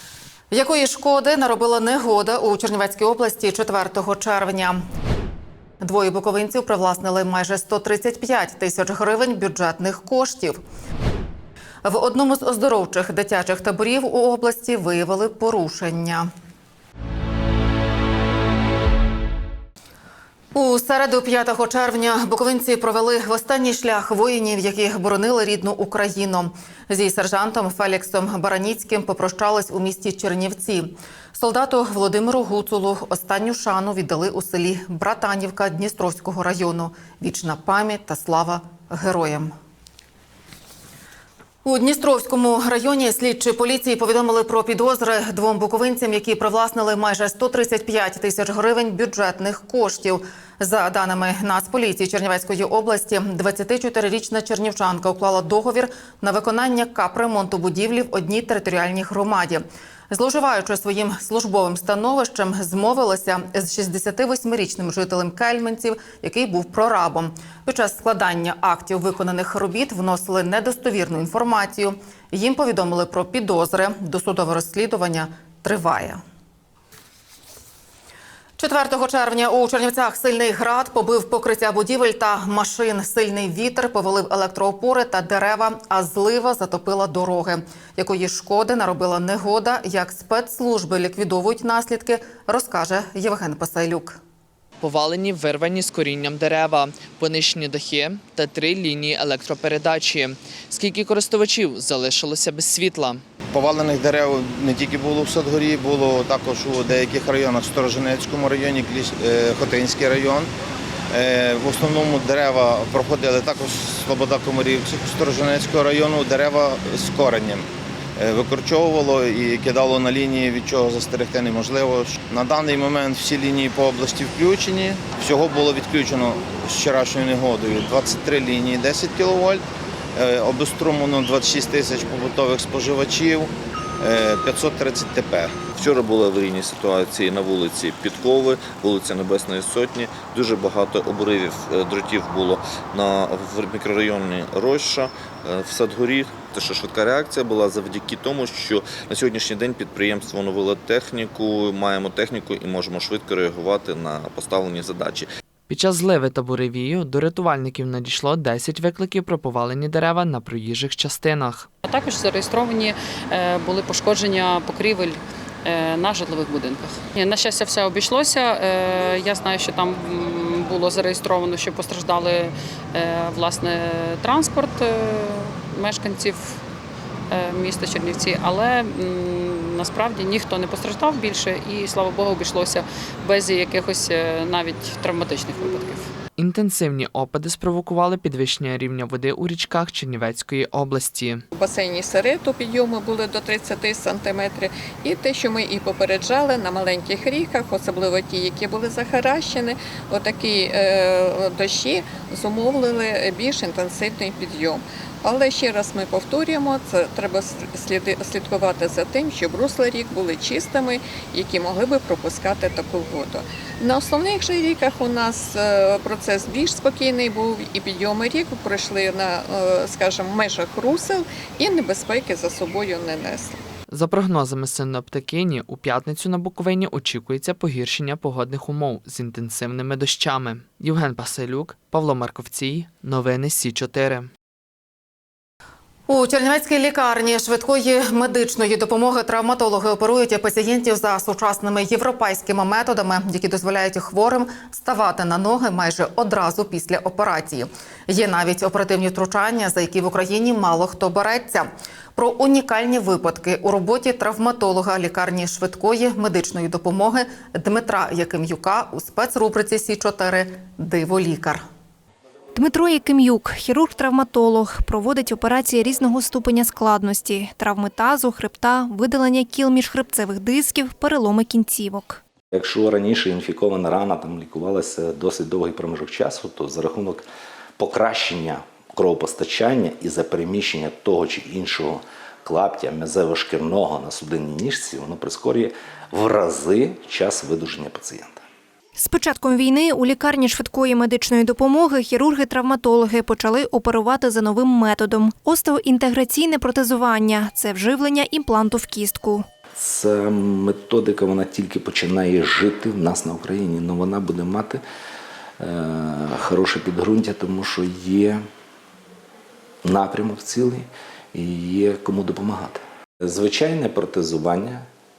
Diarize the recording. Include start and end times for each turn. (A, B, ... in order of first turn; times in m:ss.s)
0:00.5-0:04.8 A
0:05.8-0:10.6 A
0:11.8-0:16.3 A
0:20.5-0:39.5 A
0:41.6-1:16.2 A
1:18.6-1:34.2 A
1:34.8-1:43.2 B
1:43.5-1:50.5 C
1:51.1-1:57.7 C
1:58.2-2:09.6 C
2:10.2-2:15.6 C
2:15.7-2:35.3 D
2:35.7-2:41.7 B
2:41.8-2:56.6 E
2:57.3-3:06.1 E
3:06.4-3:11.4 B
3:11.5-3:43.6 F
3:43.9-3:54.3 B
3:56.1-4:21.6 A
4:22.6-4:32.2 G
4:32.5-4:37.3 H
4:37.8-4:48.4 H
4:49.0-4:59.4 G
4:59.8-5:04.8 H
5:05.6-5:08.4 H
5:09.8-5:14.8 H